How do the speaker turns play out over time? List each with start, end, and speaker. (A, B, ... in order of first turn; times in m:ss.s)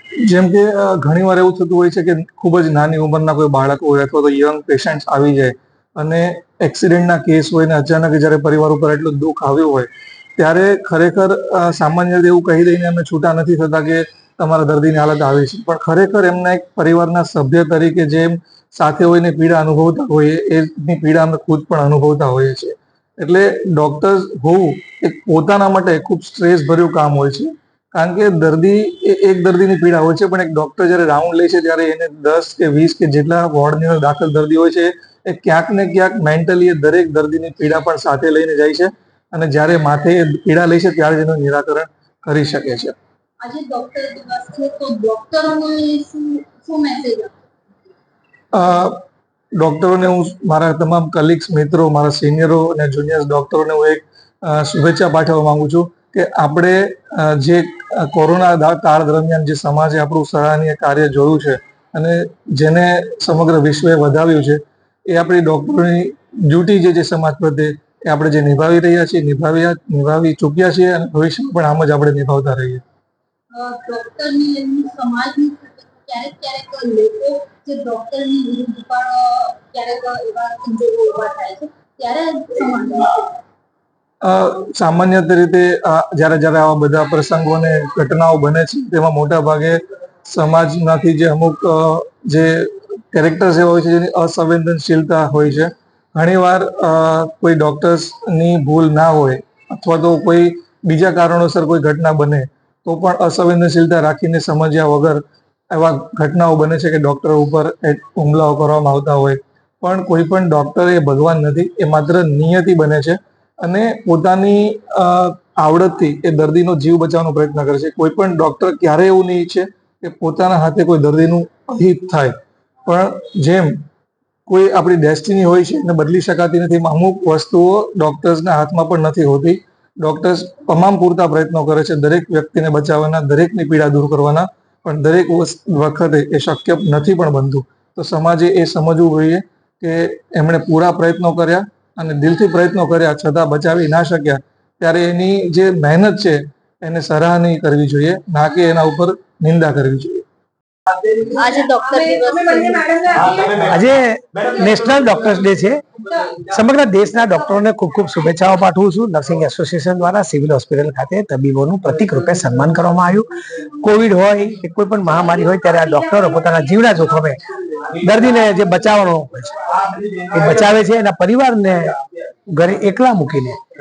0:00.2-0:43.0 A
0:43.4-0:47.4 B
0:48.5-0:49.0 A
0:49.6-1:12.8 A
1:13.5-1:23.4 B
1:24.2-2:02.3 A
2:02.9-2:03.8 A
2:04.5-2:30.2 A
2:31.2-2:33.6 B
2:33.4-2:35.8 C
2:36.4-2:43.3 C
2:43.8-2:47.4 C
2:48.0-2:49.6 C
2:50.3-2:52.0 C
2:52.5-2:53.6 C